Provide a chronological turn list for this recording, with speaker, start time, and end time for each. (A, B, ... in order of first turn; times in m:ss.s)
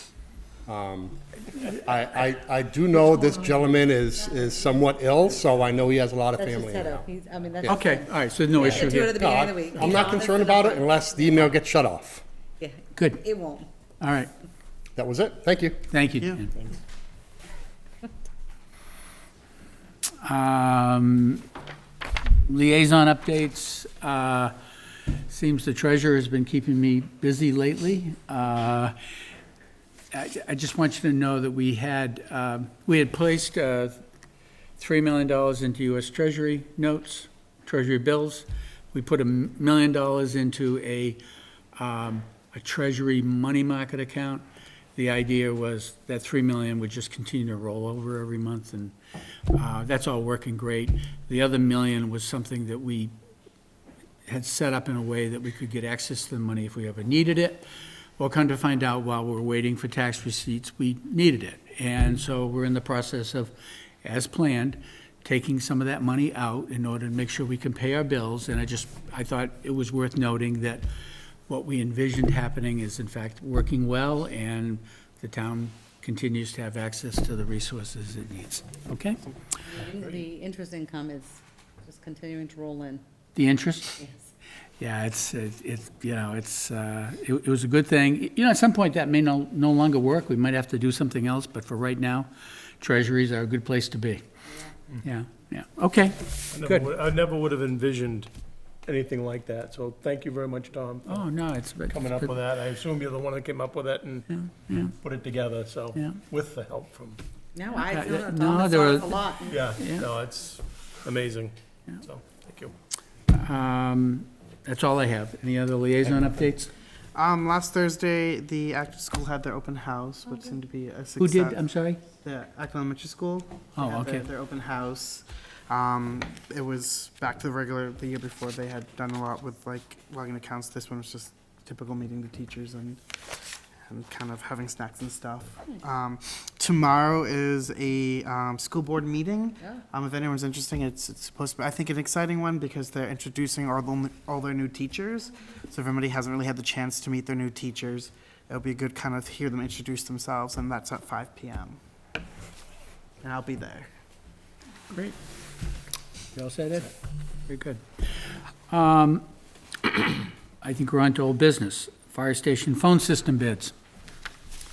0:00.6-0:07.1 A
0:06.4-0:11.5 B
0:07.6-0:09.1 C
0:08.5-0:12.2 A
0:12.6-0:13.7 B
0:13.0-0:13.2 C
0:14.0-0:14.3 C
0:15.0-0:15.8 A
0:15.9-0:16.5 C
0:20.2-0:21.4 C
0:22.4-0:24.5 C
0:25.3-0:29.0 C
0:30.1-0:34.0 C
0:34.8-0:41.2 C
0:41.7-0:44.4 C
0:45.0-0:48.9 C
0:49.5-0:53.1 C
0:54.3-0:57.6 C
0:58.2-1:10.9 C
1:11.5-1:19.2 C
1:19.6-1:23.0 B
1:23.3-1:24.0 C
1:24.0-1:24.3 B
1:24.8-1:34.2 C
1:35.0-1:36.9 C
1:36.5-1:38.3 D
1:38.8-1:41.3 D
1:41.0-1:42.3 C
1:41.9-1:47.2 D
1:44.3-1:44.9 C
1:47.5-1:49.6 B
1:47.7-1:50.0 C
1:49.5-1:52.7 D
1:53.3-1:56.7 C
1:57.1-2:13.1 E
2:01.2-2:02.0 C
2:03.8-2:04.2 C
2:13.9-2:31.8 E
2:33.2-2:33.9 E
2:34.9-2:35.2 C
2:36.3-2:36.9 C
2:37.5-2:37.8 C
2:38.7-2:39.2 C
2:39.8-2:43.7 C